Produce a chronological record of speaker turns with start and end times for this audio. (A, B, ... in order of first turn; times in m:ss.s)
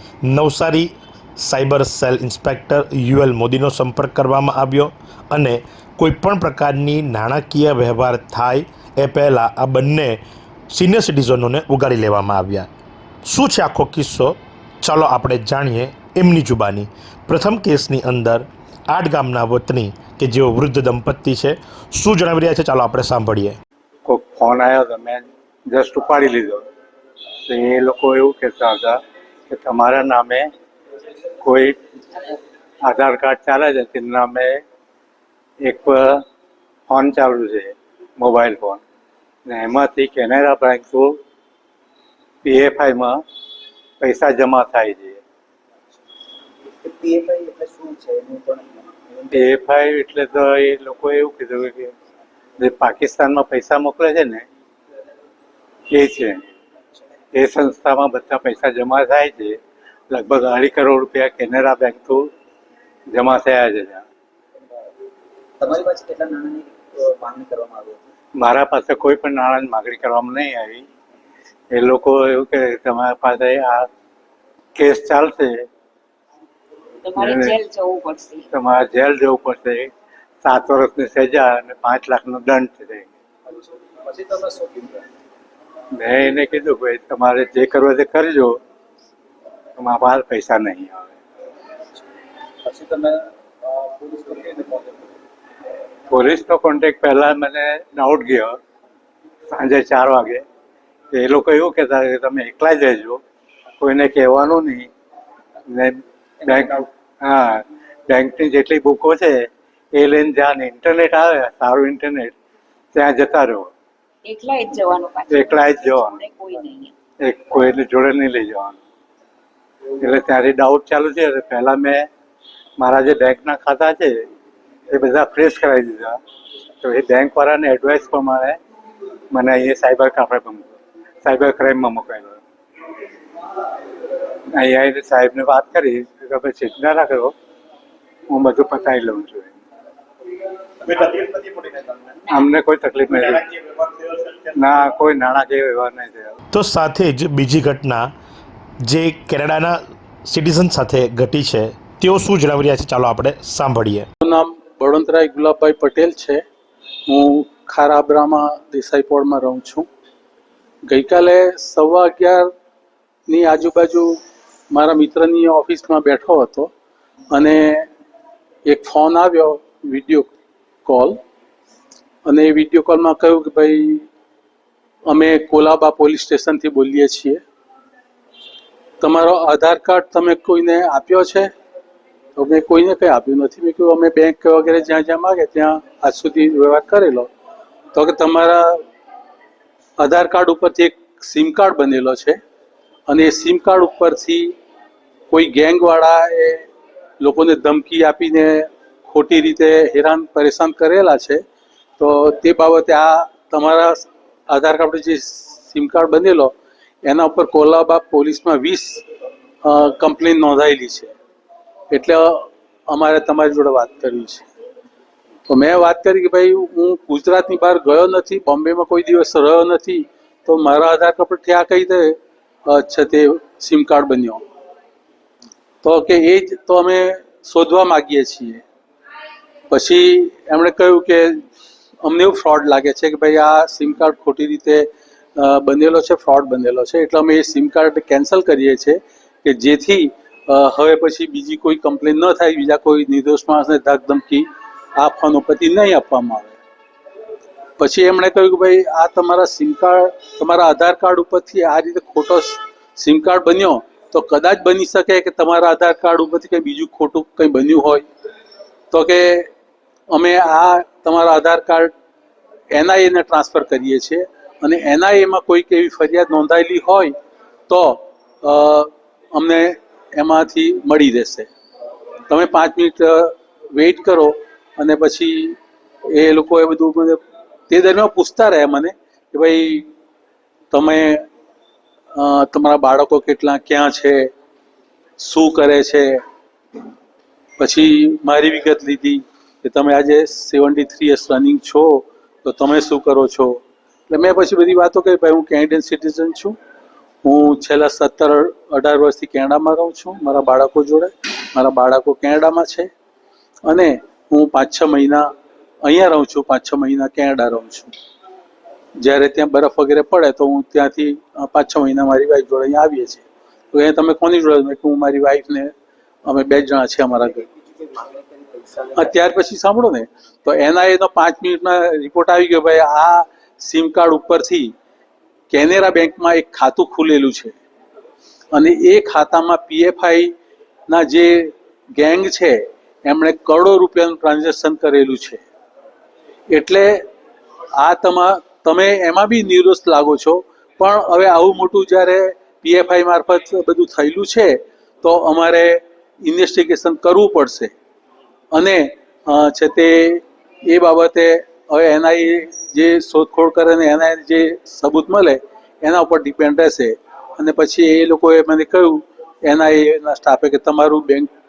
0:00.2-0:10.2 A
0:10.7-0:12.7 A
0:13.2-0:23.6 A
0:24.0-0:26.6 B
0:27.4-0:29.0 B
0:29.5-0:30.5 B
0:31.4-0:31.8 B
0:32.8-0:34.6 B
0:35.6-0:36.2 B
0:36.9-0:38.8 B
0:39.5-0:41.2 B
0:42.4-0:43.2 B
0:44.0-0:45.2 B
0:46.8-0:49.5 C
0:49.3-0:51.9 B
0:52.6-0:54.4 B
0:55.9-0:56.4 B
0:57.3-0:59.6 B
1:00.1-1:02.3 B
1:03.1-1:04.0 B
1:05.6-1:08.0 C
1:08.4-1:10.8 B
1:11.7-1:13.9 B
1:14.8-1:15.6 B
1:17.0-1:18.4 D
1:18.5-1:19.9 B
1:20.4-1:23.1 B
1:24.0-1:25.0 C
1:26.0-1:28.6 B
1:29.8-1:31.2 B
1:32.6-1:35.1 C
1:36.1-1:38.6 B
1:39.5-1:40.4 B
1:41.1-1:43.2 B
1:43.8-1:44.9 B
1:45.7-1:52.3 B
1:52.9-1:53.7 B
1:54.2-1:56.9 D
1:55.3-1:56.1 B
1:57.2-1:58.8 B
2:00.0-2:02.1 B
2:02.8-2:04.2 B
2:04.9-2:06.2 B
2:06.8-2:08.6 B
2:09.3-2:10.7 B
2:11.2-2:12.4 B
2:14.5-2:17.3 B
2:18.3-2:19.6 B
2:21.0-2:21.4 C
2:22.3-2:23.5 B
2:24.5-2:26.3 B
2:26.5-2:28.1 A
2:28.8-2:34.1 A
2:34.2-2:36.4 E
2:37.1-2:39.9 E
2:40.9-2:42.5 E
2:43.3-2:44.1 E
2:44.7-2:46.7 E
2:47.3-2:47.9 E
2:48.6-2:50.3 E
2:50.8-2:51.2 E
2:52.2-2:54.1 E
2:55.1-2:57.4 E
2:59.0-3:01.5 E
3:02.3-3:07.3 E
3:07.9-3:08.8 E
3:10.0-3:12.4 E
3:13.1-3:14.5 E
3:15.3-3:16.7 E
3:17.2-3:21.4 E
3:22.0-3:26.5 E
3:27.0-3:29.0 E
3:29.6-3:31.1 E
3:31.9-3:34.5 E
3:35.5-3:42.2 E
3:42.7-3:44.4 E
3:45.8-3:48.6 E
3:49.7-3:51.4 E
3:52.0-4:06.6 E
4:07.8-4:18.0 E
4:18.9-4:19.5 E
4:20.1-4:21.9 E
4:22.7-4:27.1 E
4:27.7-4:31.5 E
4:32.3-4:35.6 E
4:36.1-4:39.9 E
4:40.7-4:41.2 E
4:42.1-4:44.3 E
4:45.2-4:46.2 E
4:47.6-4:56.5 E
4:57.2-5:02.9 E
5:03.6-5:05.3 E
5:05.8-5:07.9 E
5:09.0-5:15.7 E
5:16.2-5:17.4 E
5:17.5-5:19.0 C
5:18.9-5:24.7 E
5:25.5-5:27.6 E
5:28.5-5:30.3 E
5:30.9-5:35.4 E
5:36.5-5:37.0 E
5:37.8-5:47.7 E
5:48.5-6:01.3 E